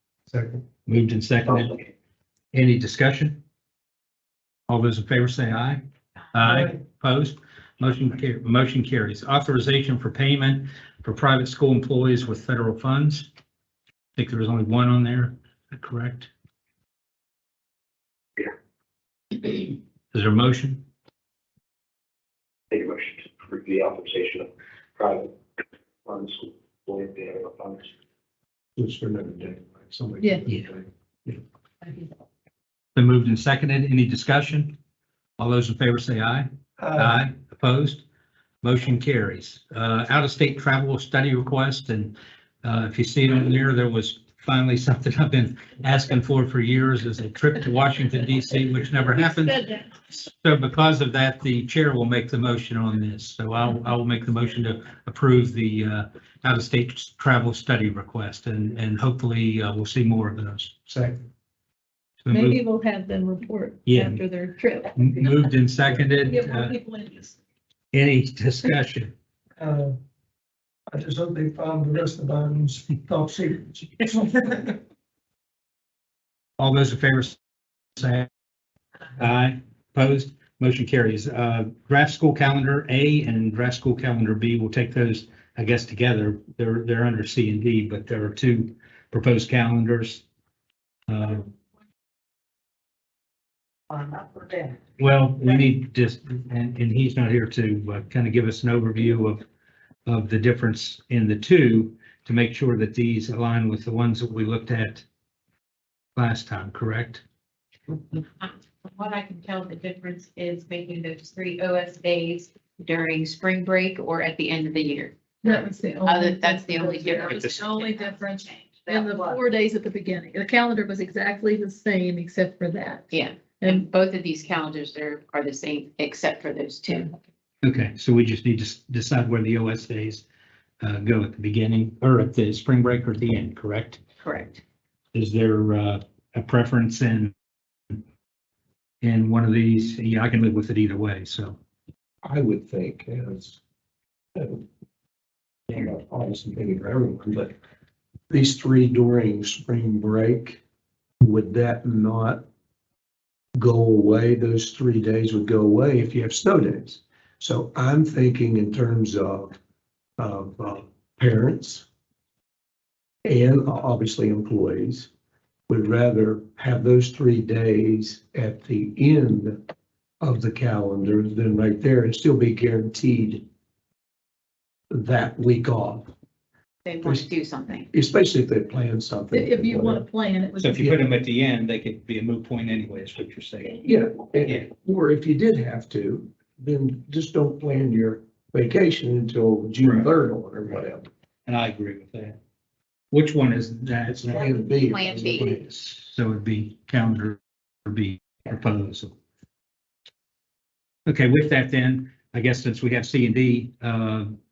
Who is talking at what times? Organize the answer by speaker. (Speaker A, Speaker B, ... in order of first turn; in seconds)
Speaker A: 0.8-1.7, 2.5-3.4, 4.7-5.8, 6.3-13.3, 14.2-16.3, 20.1-20.8, 32.9-34.8, 35.4-38.0, 38.6-61.0, 62.2-62.6, 63.9-64.2, 65.0-66.7, 67.9-69.1, 76.6-77.4, 78.0-78.3, 79.2-90.2, 91.1-91.5, 95.0-99.4, 100.0-105.0, 106.2-107.2, 127.6-130.2, 130.8-134.0, 135.1-137.3, 139.0-141.6, 180.6-183.8, 189.8-190.1, 191.4-192.4, 193.1-199.2, 201.1-204.3
Speaker B: 6.4-6.8, 36.8-37.1, 69.6-69.9, 70.9-74.8
Speaker C: 22.7-25.3, 26.0-27.9
Speaker D: 28.8-31.4, 142.2-143.6, 144.3-144.6, 145.7-147.5, 148.3-150.6, 151.2-152.4, 153.6-159.6, 160.2-161.8, 163.2-165.1, 165.7-169.6, 170.2-173.4, 174.9-176.1, 177.0-177.3, 177.9-180.0, 180.8-181.0, 183.8-191.1, 194.2-195.5
Speaker E: 30.2-30.4, 62.3-65.3, 66.2-67.3, 115.4-123.8, 179.3-180.8
Speaker F: 108.4-119.4, 123.1-127.2, 134.2-134.6, 176.8-177.9, 194.9-195.5